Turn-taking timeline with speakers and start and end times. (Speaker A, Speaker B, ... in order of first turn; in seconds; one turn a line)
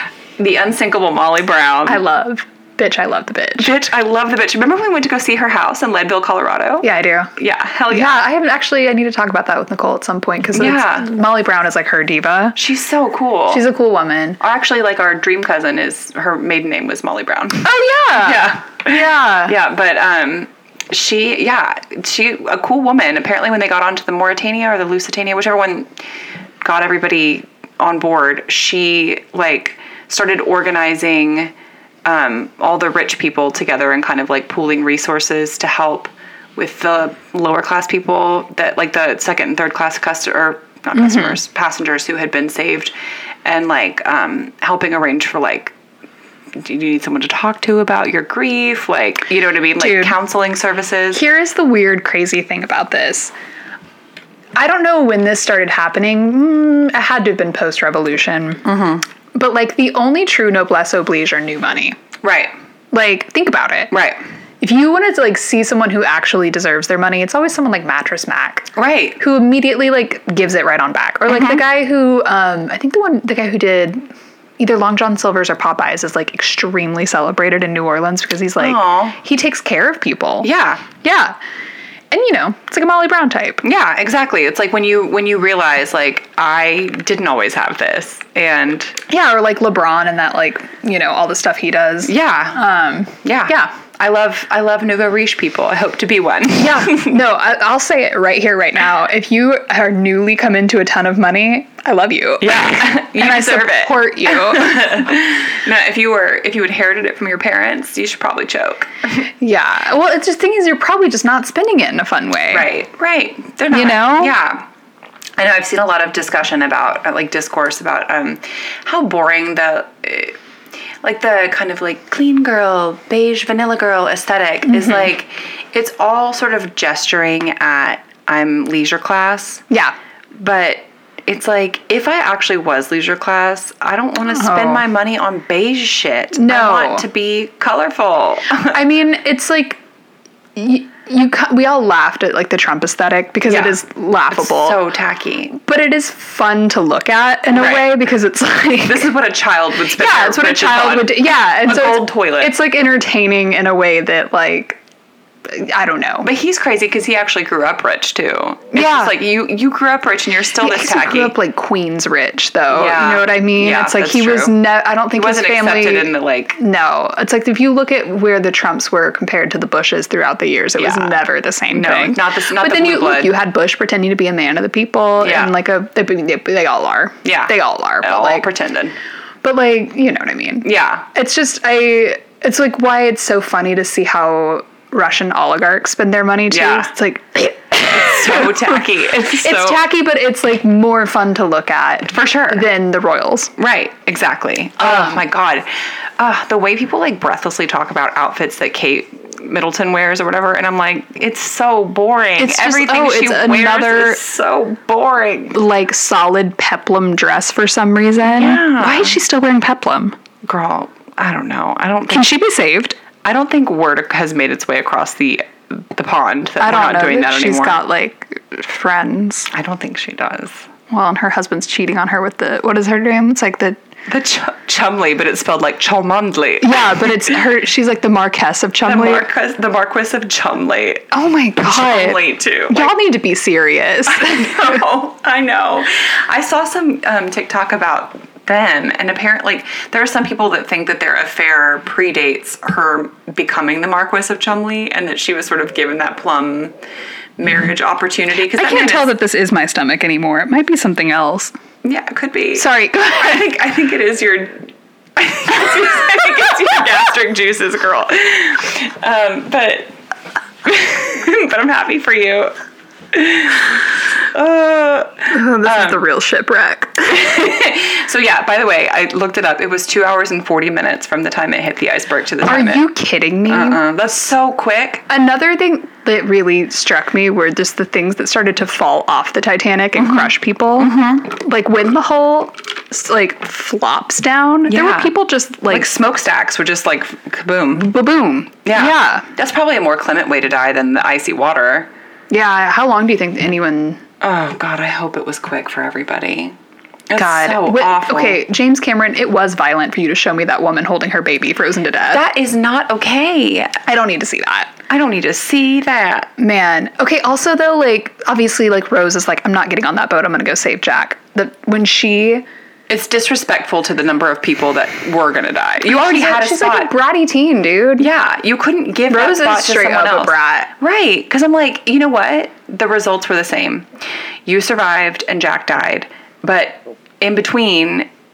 Speaker A: 0.4-2.0
Speaker B: 1.9-3.7
Speaker A: 3.6-8.2
Speaker B: 6.8-7.3
Speaker B: 7.9-12.6
Speaker A: 10.5-11.1
Speaker A: 12.6-13.6
Speaker B: 13.5-14.4
Speaker A: 14.4-26.0
Speaker B: 17.6-19.6
Speaker A: 26.6-31.5
Speaker A: 32.0-42.9
Speaker B: 40.9-41.4
Speaker A: 43.4-45.7
Speaker A: 46.5-51.2
Speaker B: 49.8-50.1
Speaker B: 51.1-53.3
Speaker B: 54.5-58.8
Speaker A: 58.6-59.0
Speaker B: 59.3-62.0
Speaker A: 62.2-62.5
Speaker B: 62.9-63.9
Speaker A: 63.9-64.2
Speaker B: 64.6-74.1
Speaker A: 68.7-69.2
Speaker A: 71.3-71.6
Speaker B: 74.6-80.5
Speaker A: 78.6-79.2
Speaker A: 80.4-80.8
Speaker B: 81.0-81.3
Speaker B: 82.1-83.6
Speaker A: 83.6-89.0
Speaker B: 89.1-93.7
Speaker A: 92.0-92.6
Speaker A: 93.2-97.2
Speaker B: 96.5-105.1
Speaker A: 102.4-108.9
Speaker B: 109.4-112.7
Speaker A: 112.5-114.6
Speaker B: 113.7-114.3
Speaker A: 115.4-120.4
Speaker A: 121.0-129.6
Speaker B: 124.7-125.1
Speaker B: 129.7-129.9
Speaker A: 130.3-138.8
Speaker B: 134.3-134.8
Speaker B: 136.3-137.0
Speaker B: 138.7-139.8
Speaker B: 140.6-144.8
Speaker A: 143.5-143.8
Speaker A: 144.3-145.6
Speaker B: 145.6-149.1
Speaker A: 147.5-147.9
Speaker A: 148.8-152.5
Speaker B: 149.9-154.8
Speaker B: 155.4-156.3
Speaker A: 156.2-161.3
Speaker B: 158.7-159.1
Speaker B: 160.6-178.4
Speaker A: 162.7-164.6
Speaker A: 165.1-166.6
Speaker A: 170.8-173.4
Speaker A: 175.2-175.5
Speaker A: 177.2-178.9
Speaker B: 179.4-193.5
Speaker A: 180.6-181.1
Speaker A: 186.5-186.9
Speaker A: 187.9-189.8
Speaker A: 192.1-192.6
Speaker A: 193.6-205.6
Speaker B: 194.8-195.2
Speaker B: 202.4-204.2
Speaker B: 205.5-210.2
Speaker A: 208.2-209.2
Speaker A: 210.4-212.3
Speaker B: 212.1-213.0
Speaker A: 213.2-217.8
Speaker B: 216.6-219.5
Speaker A: 219.5-220.7
Speaker B: 220.9-223.8
Speaker A: 224.1-227.4
Speaker B: 226.6-229.3
Speaker A: 228.8-231.1
Speaker B: 231.1-234.8
Speaker A: 231.6-232.9
Speaker A: 234.1-246.7
Speaker A: 247.4-249.1
Speaker B: 248.5-251.5
Speaker A: 251.8-259.9
Speaker B: 252.5-253.3
Speaker A: 260.6-262.5
Speaker A: 263.1-266.0
Speaker B: 265.3-267.3
Speaker A: 267.1-272.8
Speaker B: 272.4-273.8
Speaker A: 273.5-275.0
Speaker B: 275.1-285.9
Speaker A: 280.0-280.3
Speaker A: 280.8-281.3
Speaker A: 284.7-285.1
Speaker A: 285.7-287.9
Speaker B: 287.8-289.2
Speaker A: 288.6-291.9
Speaker B: 292.3-294.0
Speaker A: 294.2-296.6
Speaker A: 297.1-298.4
Speaker B: 297.1-302.2
Speaker A: 302.1-303.8
Speaker B: 303.9-304.7
Speaker A: 304.9-306.3
Speaker B: 306.4-312.4
Speaker A: 312.9-316.9
Speaker B: 315.8-318.1
Speaker A: 318.0-323.9
Speaker B: 319.1-320.7
Speaker A: 324.4-328.1